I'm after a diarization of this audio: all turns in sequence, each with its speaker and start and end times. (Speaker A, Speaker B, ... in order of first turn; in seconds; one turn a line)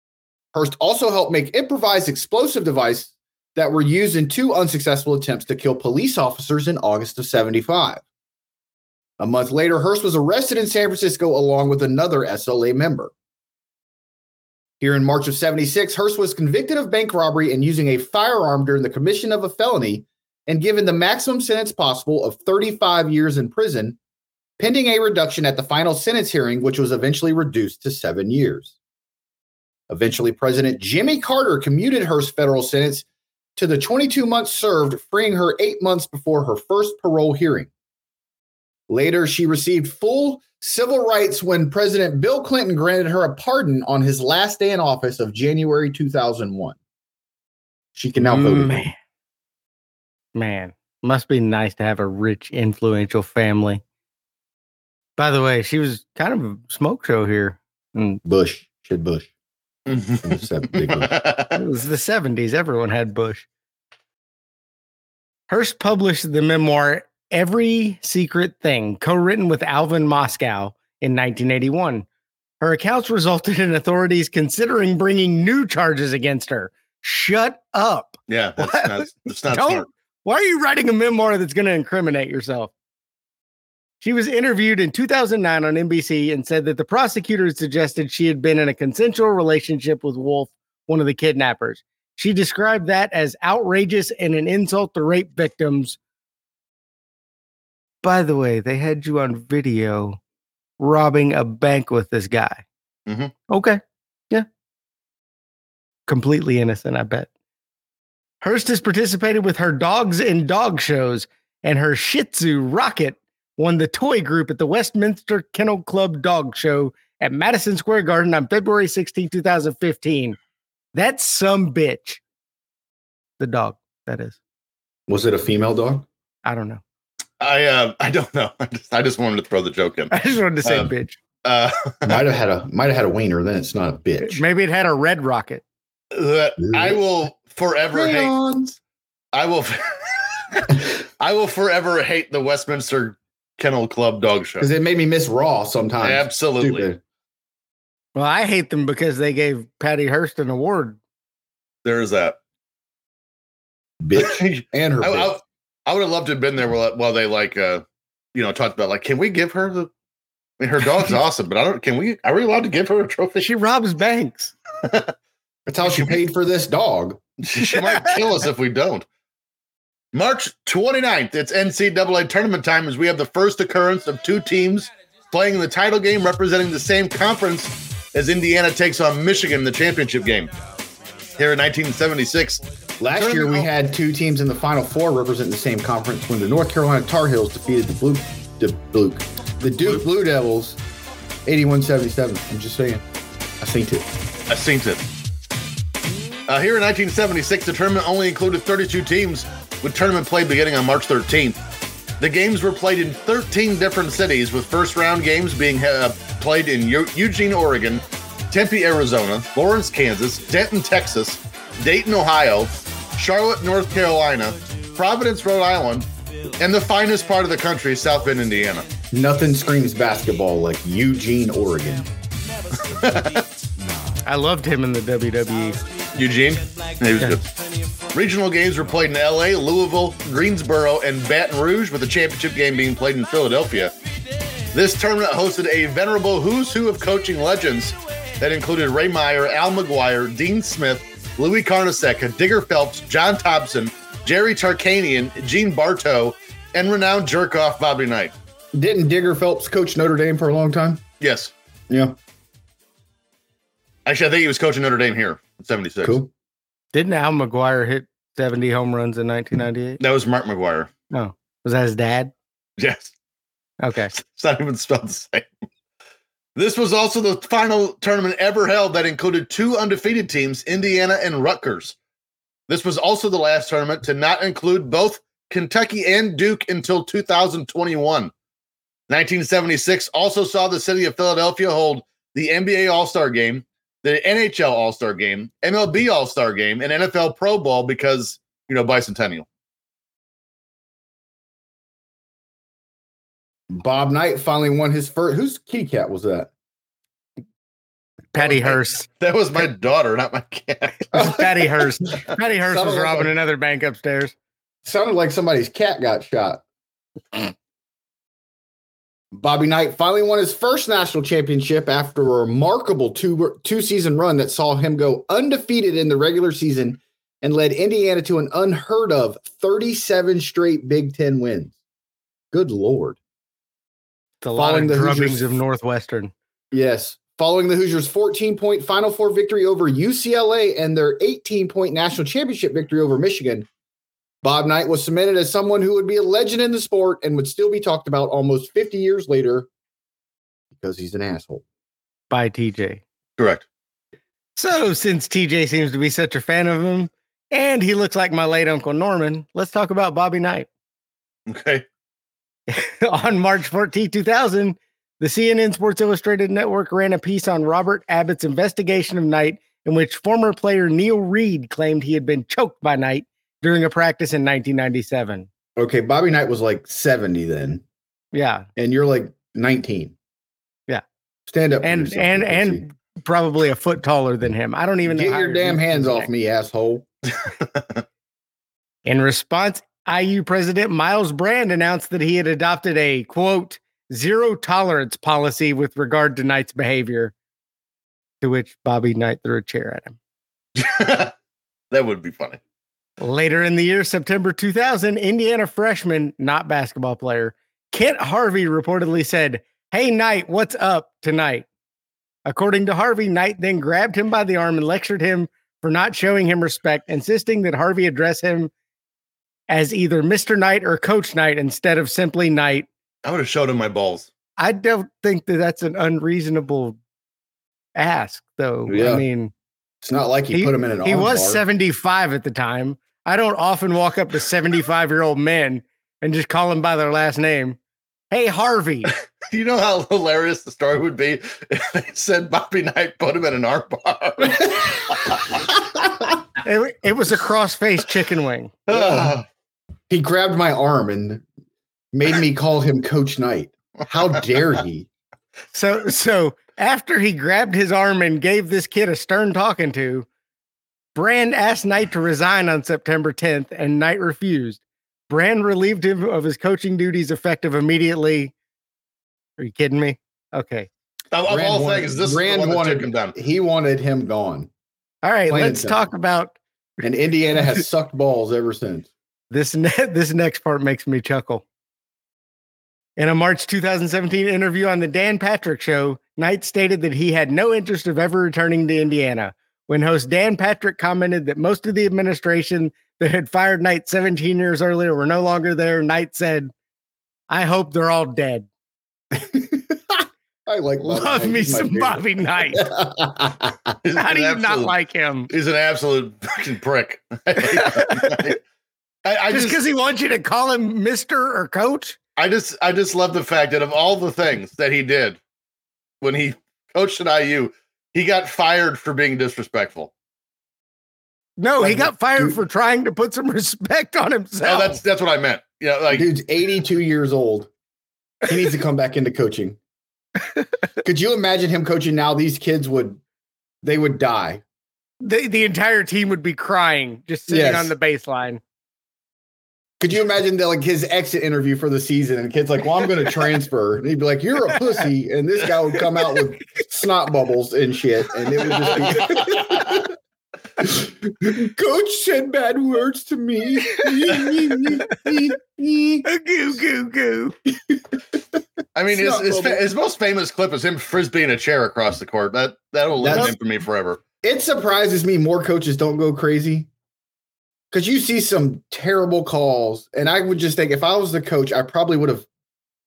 Speaker A: 0.5-8.0
Speaker A: 9.2-13.1
Speaker A: 14.8-24.0
Speaker A: 24.6-28.7
Speaker A: 29.9-37.7
Speaker A: 38.9-46.8
Speaker A: 47.9-48.9
Speaker B: 48.2-48.9
Speaker B: 50.3-53.8
Speaker B: 55.2-58.2
Speaker A: 58.2-59.3
Speaker C: 59.9-61.6
Speaker A: 60.2-61.1
Speaker B: 61.5-63.5
Speaker B: 65.5-72.0
Speaker B: 72.6-82.7
Speaker C: 78.3-79.9
Speaker B: 84.0-96.0
Speaker B: 98.0-100.2
Speaker B: 100.8-102.6
Speaker C: 103.1-103.3
Speaker B: 103.5-104.5
Speaker B: 106.1-107.3
Speaker B: 108.4-120.4
Speaker B: 120.9-122.2
Speaker B: 123.4-124.4
Speaker A: 125.1-126.1
Speaker B: 126.4-126.8
Speaker C: 127.4-130.9
Speaker B: 130.1-131.2
Speaker C: 131.4-132.2
Speaker A: 132.0-134.4
Speaker B: 134.2-135.6
Speaker C: 136.1-138.3
Speaker A: 136.7-137.0
Speaker A: 137.9-138.8
Speaker C: 139.3-144.7
Speaker A: 144.6-147.0
Speaker C: 146.0-146.8
Speaker B: 148.2-151.0
Speaker C: 151.8-152.4
Speaker A: 154.0-155.3
Speaker C: 154.2-159.9
Speaker C: 160.6-163.5
Speaker B: 163.4-164.5
Speaker C: 164.8-165.1
Speaker A: 165.7-167.2
Speaker C: 165.8-166.1
Speaker C: 167.4-169.1
Speaker B: 167.7-168.1
Speaker C: 170.1-180.5
Speaker C: 181.4-182.6
Speaker A: 183.0-190.8
Speaker C: 183.1-183.7
Speaker A: 191.4-193.0
Speaker A: 193.6-194.1
Speaker C: 194.5-195.0
Speaker C: 196.5-201.6
Speaker C: 202.2-216.1
Speaker C: 216.6-218.9
Speaker A: 219.1-222.1
Speaker C: 222.9-223.4
Speaker B: 224.2-225.8
Speaker C: 226.1-227.5
Speaker C: 228.1-233.9
Speaker C: 234.7-248.3
Speaker A: 248.7-251.0
Speaker C: 251.2-251.5
Speaker A: 251.9-252.2
Speaker C: 254.1-256.2
Speaker A: 256.0-256.3
Speaker B: 256.9-260.0
Speaker C: 260.0-260.9
Speaker B: 261.1-262.3
Speaker C: 262.8-263.1
Speaker B: 263.8-264.1
Speaker C: 264.1-265.5
Speaker C: 266.6-272.0
Speaker C: 272.7-278.3
Speaker C: 279.1-289.4
Speaker A: 293.7-296.5
Speaker B: 298.3-299.1
Speaker C: 298.4-301.3
Speaker B: 301.1-304.3
Speaker A: 302.6-303.3
Speaker A: 304.8-306.6
Speaker A: 309.3-321.8
Speaker A: 322.5-323.2
Speaker B: 324.4-326.3
Speaker A: 324.5-325.6
Speaker A: 326.7-333.7
Speaker A: 334.4-339.7
Speaker A: 340.7-341.6
Speaker B: 342.3-343.0
Speaker C: 343.4-343.6
Speaker B: 344.6-350.7
Speaker C: 351.5-351.9
Speaker B: 352.7-365.5
Speaker A: 365.8-367.8
Speaker B: 368.3-368.7
Speaker A: 368.8-370.1
Speaker A: 371.5-372.8
Speaker B: 371.8-376.3
Speaker A: 375.0-377.1
Speaker B: 379.1-387.3
Speaker B: 388.4-390.2
Speaker C: 390.8-391.3
Speaker C: 391.9-392.6
Speaker B: 393.2-401.6
Speaker B: 402.4-408.7
Speaker B: 409.7-412.9
Speaker C: 413.2-414.3
Speaker B: 414.6-417.0
Speaker B: 417.9-419.5
Speaker A: 418.9-419.2
Speaker A: 420.0-421.6
Speaker B: 420.5-427.8
Speaker B: 428.3-429.1
Speaker C: 429.5-435.6
Speaker B: 436.6-438.8
Speaker C: 438.9-439.4
Speaker A: 438.9-439.3
Speaker A: 440.1-441.4
Speaker A: 442.1-445.1
Speaker B: 445.7-450.3
Speaker B: 451.1-458.5
Speaker B: 459.6-460.9
Speaker C: 461.3-463.3
Speaker A: 461.5-464.7
Speaker B: 465.2-466.6
Speaker A: 465.5-466.1
Speaker A: 467.0-469.1
Speaker B: 469.5-471.6
Speaker B: 473.2-486.7
Speaker B: 487.5-488.7
Speaker A: 489.3-493.7
Speaker B: 491.0-492.9
Speaker C: 494.0-494.9
Speaker B: 494.1-495.5
Speaker C: 495.5-498.6
Speaker B: 497.6-498.4
Speaker C: 499.2-499.8
Speaker B: 499.5-502.2
Speaker C: 502.4-505.4
Speaker C: 506.2-510.1
Speaker B: 511.6-515.0
Speaker A: 511.8-512.6
Speaker C: 514.6-516.3
Speaker A: 516.1-517.7
Speaker A: 518.4-519.8
Speaker A: 521.0-523.2
Speaker A: 523.8-524.6
Speaker B: 525.2-528.6
Speaker A: 527.5-527.9
Speaker A: 530.0-540.1
Speaker C: 539.1-539.6
Speaker A: 540.8-546.3
Speaker B: 546.2-547.5
Speaker A: 547.8-548.2
Speaker C: 548.9-554.2
Speaker A: 549.1-549.8
Speaker A: 553.2-553.5
Speaker A: 554.4-556.9
Speaker A: 557.9-562.5